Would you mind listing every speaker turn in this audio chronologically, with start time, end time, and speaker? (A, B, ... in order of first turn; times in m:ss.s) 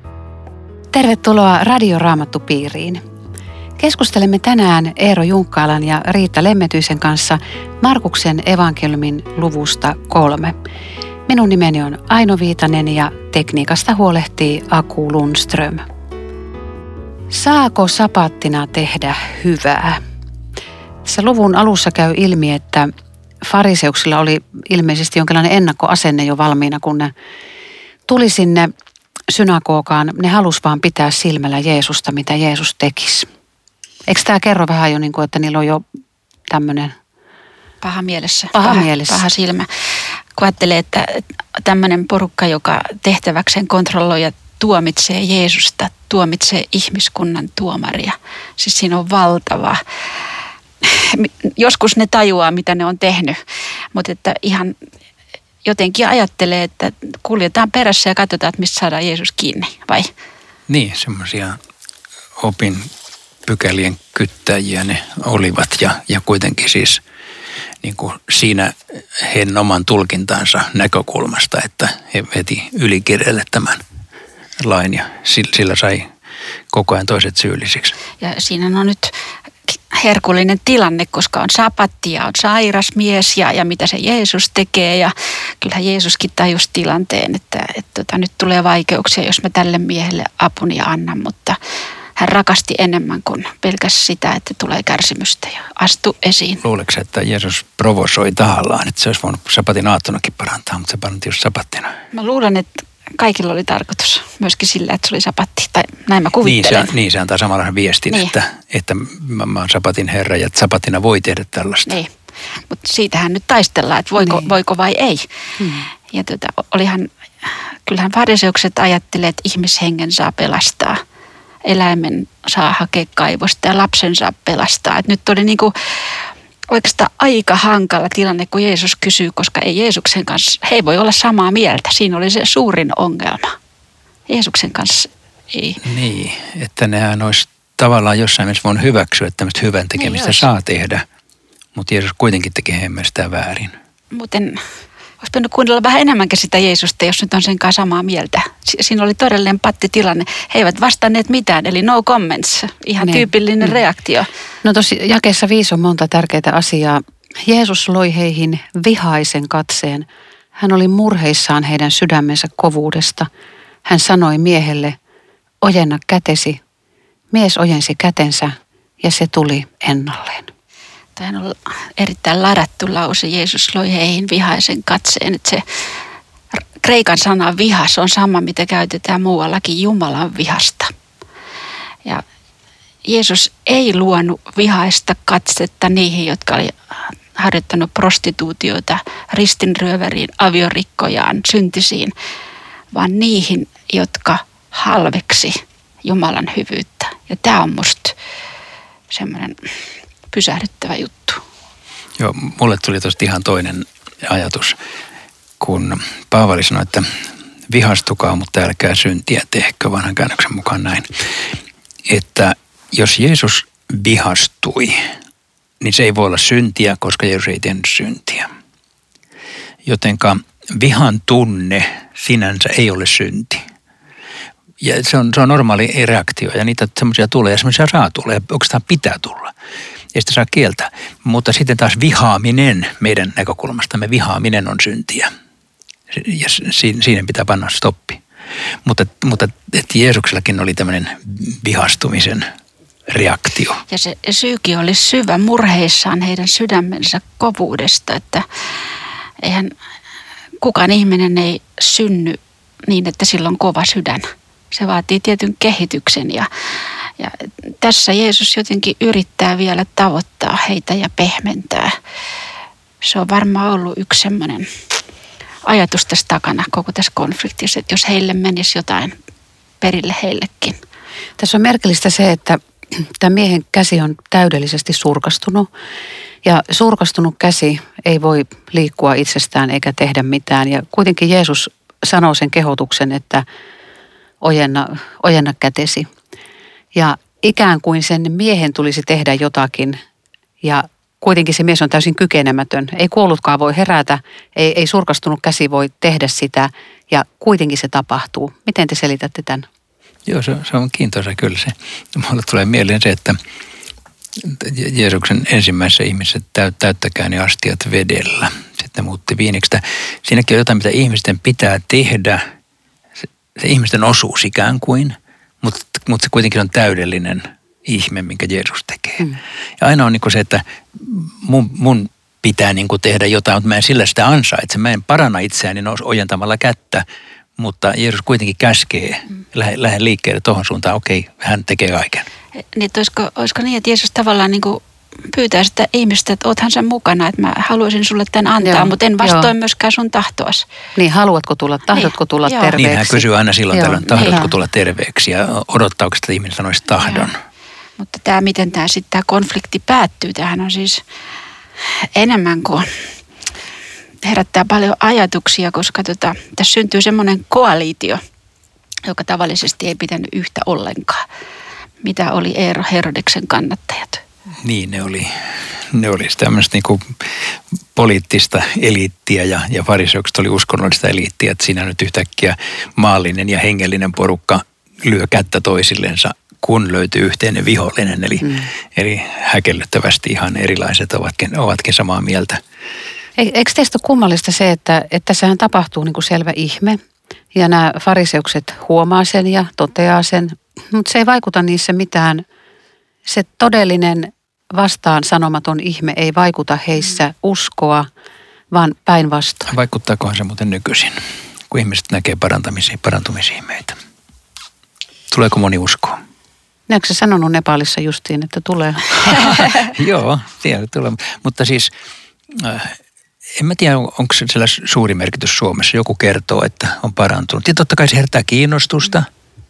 0:00.9-0:03.0 A
0:03.8-0:10.6 A
0:11.3-0:15.8 A
0:17.3-0:20.0 A
0:21.1-0:22.9 A
0:23.4-0:27.1 A
0:28.1-0:28.7 A
0:29.3-0:33.3 A
0:34.1-0:35.8 A
0:36.5-0:36.9 A
0:37.8-0:39.7 B
0:38.5-0:39.3 A
0:40.4-0:49.8 B
0:50.8-0:53.4 B
0:53.9-0:54.8 B
0:55.6-1:00.1 B
1:00.7-1:01.6 C
1:02.4-1:02.9 C
1:03.5-1:07.0 C
1:07.8-1:13.8 C
1:14.6-1:16.1 C
1:16.7-1:18.0 C
1:18.2-1:19.1 B
1:19.7-1:31.6 B
1:32.2-1:36.6 B
1:36.6-1:42.0 C
1:42.1-1:46.9 B
1:46.4-1:52.0 C
1:51.9-1:55.3 B
1:54.2-1:54.5 A
1:55.6-1:55.9 A
1:56.1-2:01.0 B
2:01.7-2:13.6 B
2:14.3-2:15.8 B
2:15.8-2:21.0 C
2:20.0-2:20.5 B
2:21.8-2:23.7 C
2:24.1-2:24.6 B
2:25.2-2:34.3 B
2:33.0-2:33.8 A
2:34.6-2:43.3 A
2:43.9-2:45.0 A
2:45.6-2:46.6 A
2:47.3-2:50.5 A
2:51.2-2:55.6 B
2:56.8-3:00.9 B
3:03.1-3:06.8 B
3:07.4-3:12.1 B
3:12.9-3:18.2 B
3:19.1-3:19.6 B
3:20.3-3:21.4 B
3:22.2-3:24.8 C
3:25.6-3:27.1 C
3:27.7-3:31.1 C
3:32.1-3:35.0 C
3:35.8-3:38.5 C
3:39.8-3:43.6 C
3:44.8-3:49.5 C
3:50.1-3:55.3 C
3:56.1-3:58.2 C
3:58.8-4:02.5 C
4:03.1-4:03.8 C
4:03.9-4:08.5 B
4:09.4-4:09.7 B
4:10.6-4:16.5 B
4:17.1-4:21.9 B
4:23.0-4:24.7 B
4:25.7-4:29.2 B
4:29.8-4:30.8 B
4:31.4-4:35.7 A
4:36.4-4:43.4 A
4:44.4-4:46.1 A
4:46.9-4:50.0 A
4:50.6-4:59.7 A
5:00.3-5:03.4 C
5:04.4-5:12.4 C
5:13.6-5:27.0 C
5:27.6-5:32.3 C
5:32.7-5:34.8 B
5:35.3-5:40.6 B
5:38.6-5:39.5 A
5:41.0-5:44.5 A
5:41.9-5:42.8 B
5:42.8-5:47.4 C
5:44.1-5:44.4 B
5:48.0-5:51.0 B
5:52.2-5:52.9 B
5:54.2-5:58.2 B
5:59.1-6:01.2 B
6:02.0-6:04.2 B
6:04.6-6:05.3 C
6:05.9-6:07.2 C
6:07.9-6:22.6 C
6:18.4-6:18.7 A
6:23.4-6:27.0 A
6:27.5-6:32.4 A
6:33.3-6:38.1 A
6:38.7-6:39.7 A
6:39.7-6:41.2 C
6:41.7-6:44.0 C
6:45.3-6:46.2 C
6:46.9-6:49.6 A
6:49.1-6:51.9 C
6:52.5-6:53.0 C
6:53.6-6:59.3 C